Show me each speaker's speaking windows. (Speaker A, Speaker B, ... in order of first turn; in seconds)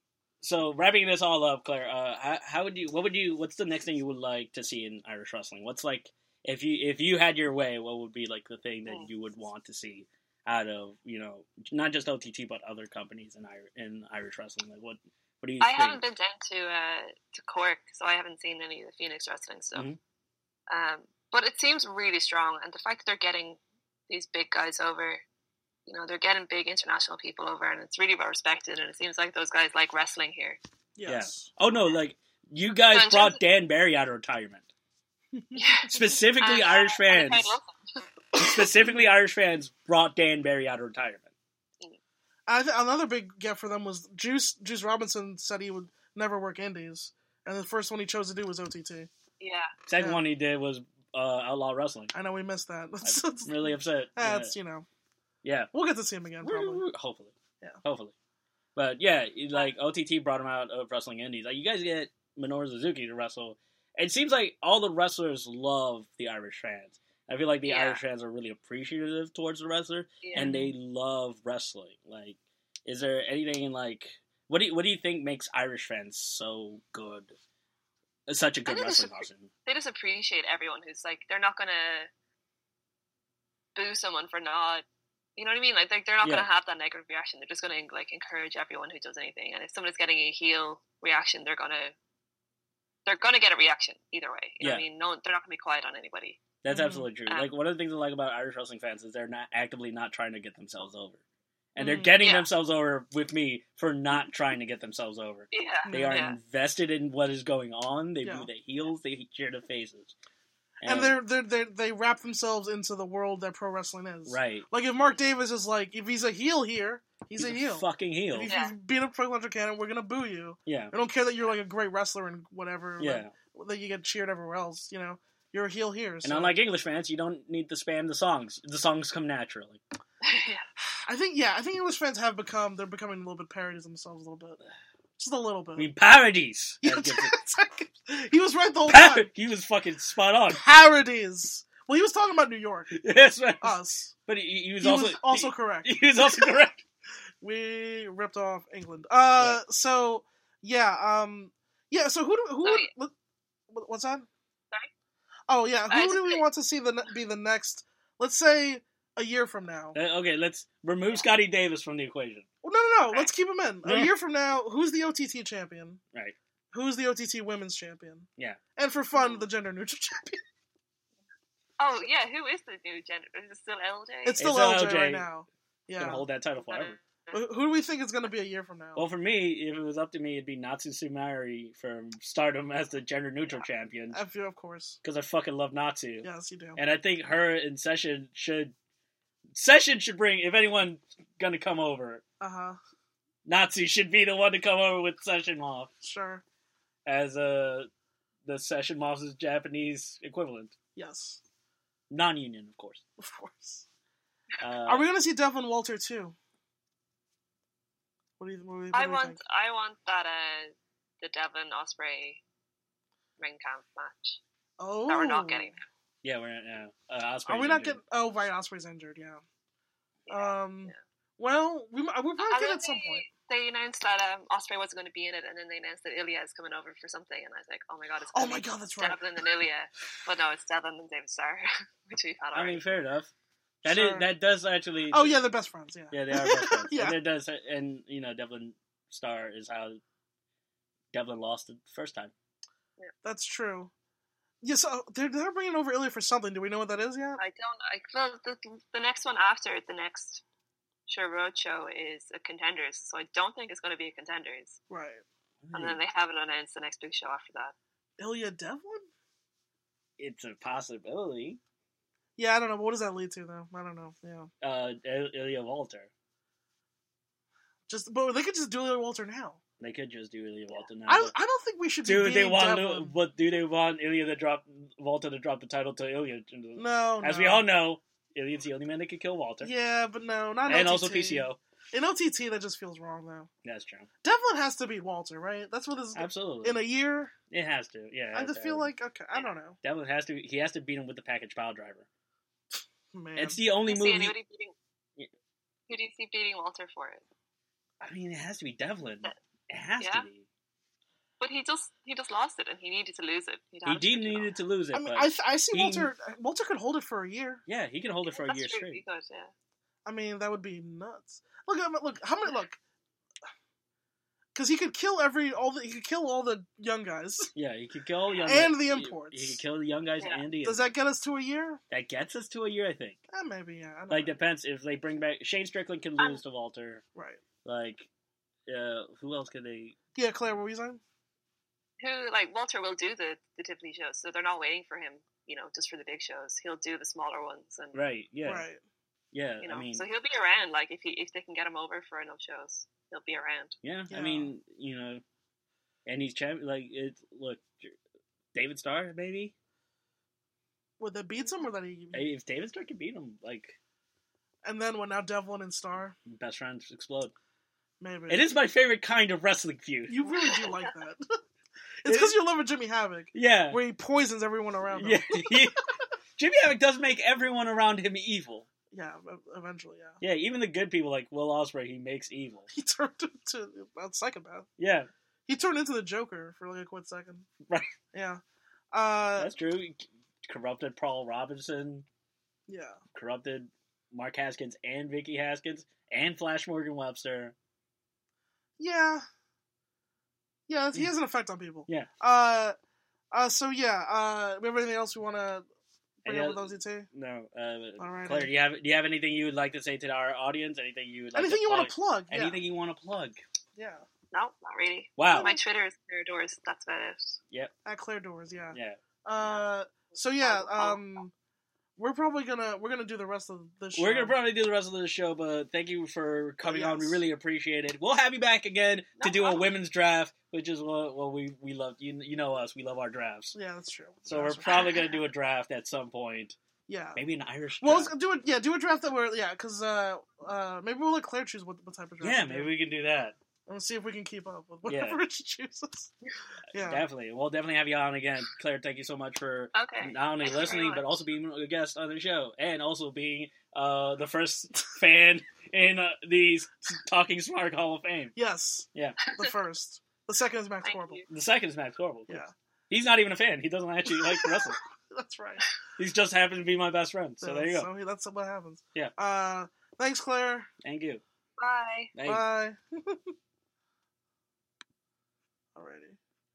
Speaker A: 0.4-16.0, 19.7-20.0, 31.1-34.7, 35.9-37.5, 38.3-41.3, 49.9-52.1, 53.0-54.6, 55.4-55.7, 56.4-57.3, 57.8-58.1, 58.8-77.3, 78.3-79.5, 86.2-86.5, 96.6-101.2, 101.8-110.1, 110.8-111.2, 114.3-114.7, 117.4-118.5, 120.7-120.9, 123.0-123.3, 126.2-129.8, 135.8-137.3, 138.9-140.6, 142.9-146.8, 149.4-149.6, 159.9-162.5, 163.8-164.1, 174.4-175.3, 176.0-177.0, 179.0-184.2, 185.0-188.7, 189.5-192.2, 193.4-195.9, 197.1-197.9, 198.4-200.7, 202.1-203.0, 204.6-205.1, 216.2-218.0, 232.5-233.3, 233.8-235.4, 236.1-240.0, 241.1-242.3, 255.6-256.0, 260.2-261.6, 264.6-266.1, 269.8-271.3, 272.0-279.7, 280.7-281.6, 283.6-284.1, 286.1-286.8, 287.5-288.9, 289.8-292.1, 293.4-294.4, 298.0-300.5, 303.9-306.1, 307.7-309.0, 317.6-320.9, 321.9-323.2, 324.1-327.0, 327.6-328.1, 328.7-330.0, 337.9-338.6, 339.3-340.0, 343.8-345.2, 346.1-347.9, 348.5-349.5, 352.1-353.8, 356.3-357.3, 358.3-360.2, 362.1-362.4, 363.3-363.8, 364.9-365.8, 366.4-368.7, 370.2-372.7, 374.8-375.1, 379.4-382.1, 383.1-387.6, 396.2-403.4, 405.2-405.6, 408.7-409.0, 413.9-423.6, 424.3-426.6, 427.2-428.1, 432.2-433.4, 434.9-435.2, 436.7-448.3, 451.3-454.8, 456.0-457.9, 460.8-461.2, 462.1-462.4
Speaker B: 15.6-19.9, 20.7-25.2, 25.9-30.6, 32.9-33.4, 35.5-38.0, 49.4-49.7, 67.6-68.0, 70.2-70.5, 78.7-82.1, 83.8-84.8, 85.4-91.9, 93.1-96.4, 102.2-102.5, 105.5-106.4, 118.5-118.7, 130.2-130.7, 155.9-156.4, 163.1-163.3, 169.2-169.5, 171.8-174.4, 176.7-177.4, 208.9-212.4, 213.4-214.4, 215.1-215.8, 220.3-221.0, 222.4-232.9, 247.4-250.4, 251.1-254.8, 255.7-257.7, 293.9-294.8, 295.9-297.2, 300.0-300.3, 301.4-304.5, 308.3-309.5, 332.0-338.0, 339.6-343.8, 360.3-360.9, 404.3-407.4, 410.4-411.1, 419.2-419.7, 424.7-425.1, 439.7-441.2, 449.2-449.5, 450.9-451.3, 461.6-462.1
Speaker C: 31.0-31.5, 35.4-35.6, 38.8-39.1, 42.5-49.1, 50.0-50.2, 52.1-54.9, 55.7-56.8, 70.3-70.7, 96.7-97.1, 101.8-102.2, 105.9-106.2, 108.2-108.5, 110.8-126.6, 131.1-134.6, 135.2-135.9, 136.8-139.3, 140.5-142.9, 143.6-144.1, 144.8-146.5, 147.4-153.1, 153.7-154.3, 155.5-160.0, 162.6-166.0, 166.7-170.4, 174.2-176.2, 177.3-179.0, 184.1-185.0, 186.2-186.8, 192.4-192.8, 196.0-196.4, 201.0-201.4, 203.2-203.9, 204.9-206.4, 208.4-209.4, 214.8-215.7, 217.4-219.4, 220.3-223.2, 228.3-229.2, 233.8-234.3, 235.1-237.2, 243.2-243.9, 244.6-247.4, 254.9-255.2, 258.2-259.1, 262.4-264.5, 267.9-269.6, 271.1-273.1, 276.8-277.6, 279.6-283.5, 284.2-287.3, 288.3-289.8, 293.1-293.6, 304.9-307.6, 310.1-312.8, 314.6-317.5, 318.5-319.6, 320.6-321.8, 323.3-324.4, 327.1-327.4, 330.2-331.0, 338.4-338.8, 344.1-344.5, 351.0-352.3, 354.6-356.2, 358.0-358.4, 360.1-361.4, 362.0-365.7, 368.9-370.2, 372.7-374.7, 375.5-377.5, 378.1-378.4, 378.9-379.5, 382.7-383.0, 388.8-389.2, 390.7-392.8, 393.3-395.7, 396.2-397.1, 398.0-398.5, 401.3-402.6, 403.8-404.1, 407.9-411.3, 412.0-414.4, 416.7-417.2, 423.5-424.9, 426.9-427.2, 427.8-432.7, 433.7-436.1, 436.7-437.0, 448.4-451.2, 455.1-455.6, 457.4-460.7, 462.2-463.2, 465.8-466.2